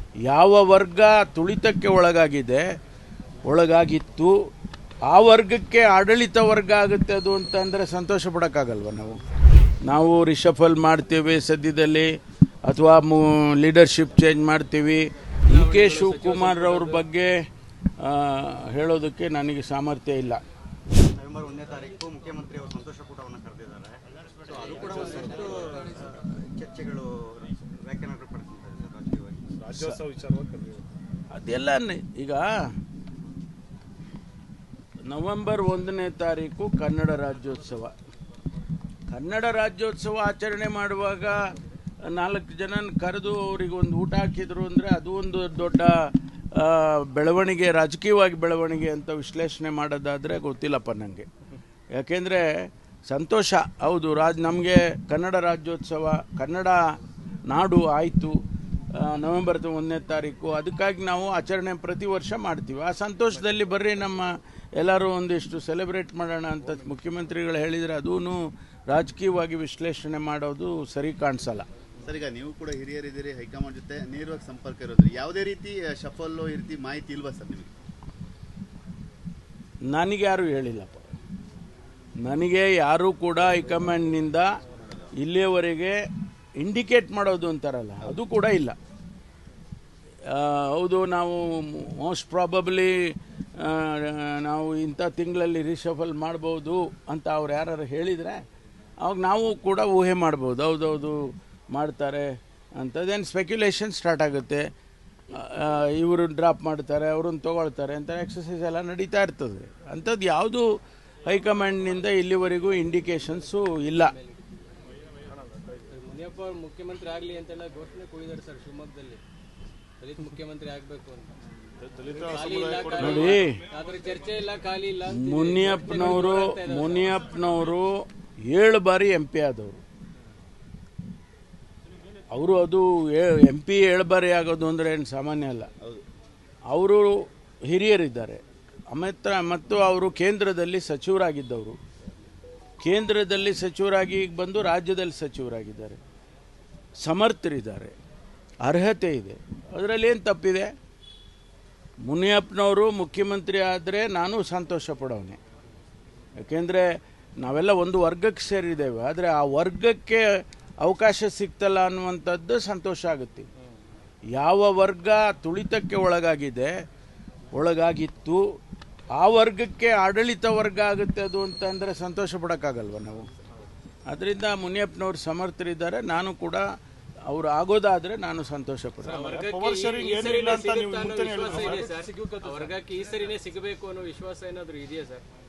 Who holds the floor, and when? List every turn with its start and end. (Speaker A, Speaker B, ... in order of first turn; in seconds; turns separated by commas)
Speaker A: 0.3-2.7, Speaker A: 3.5-4.4, Speaker A: 5.1-9.2, Speaker A: 9.9-12.1, Speaker A: 12.7-17.3, Speaker B: 15.5-17.1, Speaker A: 18.0-20.4, Speaker C: 21.1-29.5, Speaker D: 24.8-25.9, Speaker D: 29.5-30.9, Speaker A: 31.3-32.5, Speaker A: 35.1-37.9, Speaker A: 39.1-41.4, Speaker A: 42.1-46.0, Speaker A: 46.5-51.3, Speaker A: 52.0-56.8, Speaker A: 57.5-58.4, Speaker A: 58.9-71.7, Speaker E: 72.0-77.7, Speaker A: 79.9-81.1, Speaker A: 82.2-84.6, Speaker E: 84.7-85.1, Speaker A: 85.2-86.0, Speaker A: 86.6-88.8, Speaker A: 90.3-93.0, Speaker A: 93.6-98.4, Speaker A: 99.0-104.7, Speaker A: 105.3-110.7, Speaker A: 111.3-114.1, Speaker B: 113.7-114.6, Speaker B: 115.9-119.2, Speaker B: 120.0-121.3, Speaker D: 121.8-123.4, Speaker B: 122.2-127.2, Speaker A: 123.0-123.6, Speaker A: 125.1-129.8, Speaker A: 132.3-135.7, Speaker A: 136.7-141.8, Speaker A: 142.8-146.0, Speaker A: 147.0-147.9, Speaker A: 148.6-150.7, Speaker A: 152.1-155.4, Speaker A: 156.4-156.9, Speaker A: 157.4-160.3, Speaker A: 160.8-163.5, Speaker A: 164.3-166.7, Speaker A: 167.5-168.4, Speaker A: 169.2-173.3, Speaker A: 174.1-176.6, Speaker A: 177.3-179.4, Speaker B: 179.1-185.2, Speaker D: 179.1-182.0